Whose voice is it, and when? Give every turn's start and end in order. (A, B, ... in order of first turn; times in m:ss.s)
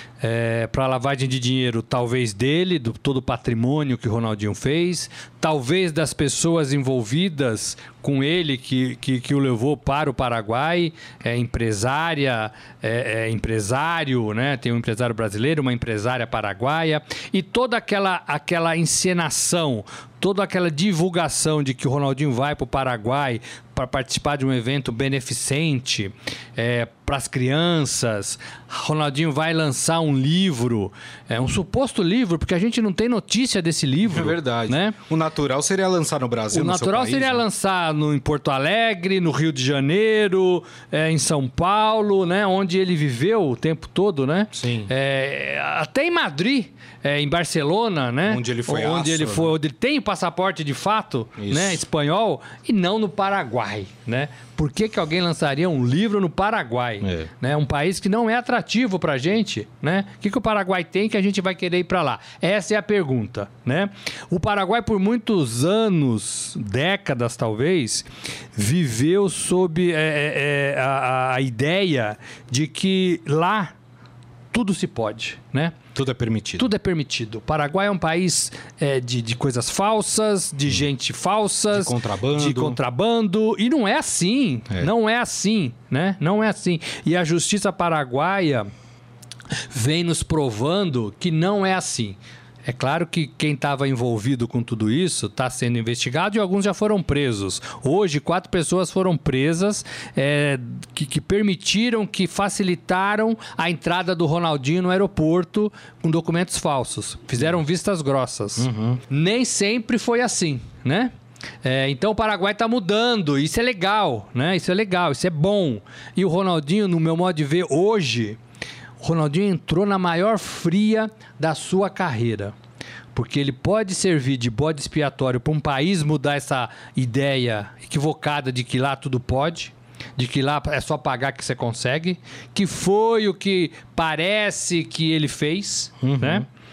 0:00.2-0:35.0 A
0:34.0-0:37.4 B
0:36.5-1:13.7 A
0:44.5-0:44.9 B
0:48.2-0:49.5 B
0:51.4-0:51.8 B
0:57.0-0:57.3 B
1:14.5-1:15.8 A
1:15.9-1:16.7 B
1:16.6-1:28.7 A
1:21.7-1:22.8 B
1:29.7-1:58.4 A
1:48.6-1:49.0 B
1:59.0-2:02.5 A
2:03.1-2:16.4 A
2:16.0-2:16.4 B